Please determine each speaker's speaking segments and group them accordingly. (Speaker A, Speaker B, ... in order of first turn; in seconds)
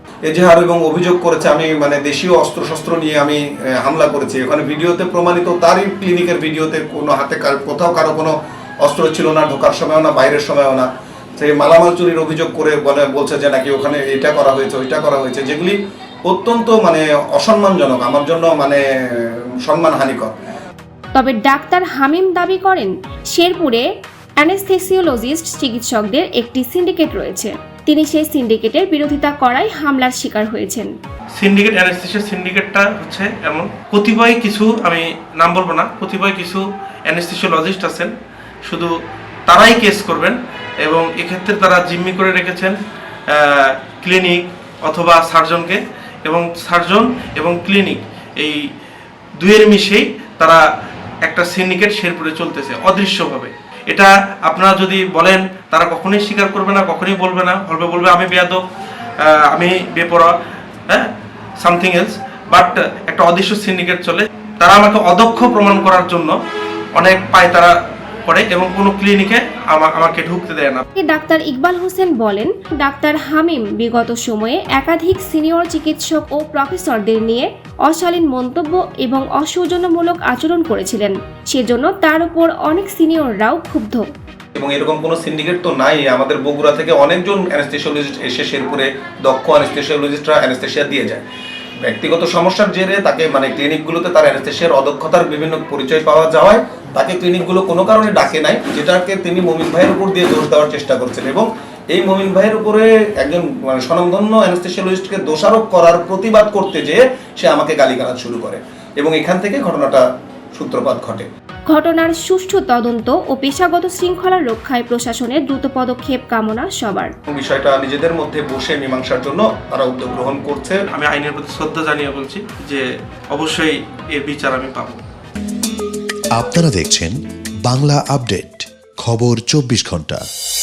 Speaker A: 0.2-20.3, 84.5-91.2, 91.8-111.3, 117.3-120.8
Speaker B: 21.1-23.9, 24.4-30.9, 71.0-84.0, 111.7-117.1
Speaker C: 31.4-38.1, 38.6-38.9, 39.5-42.8, 43.3-48.6, 49.4-50.6, 51.2-58.6, 59.2-60.3, 60.9-66.3, 67.0-67.7, 68.2-70.8, 120.9-125.0
Speaker D: 126.3-130.2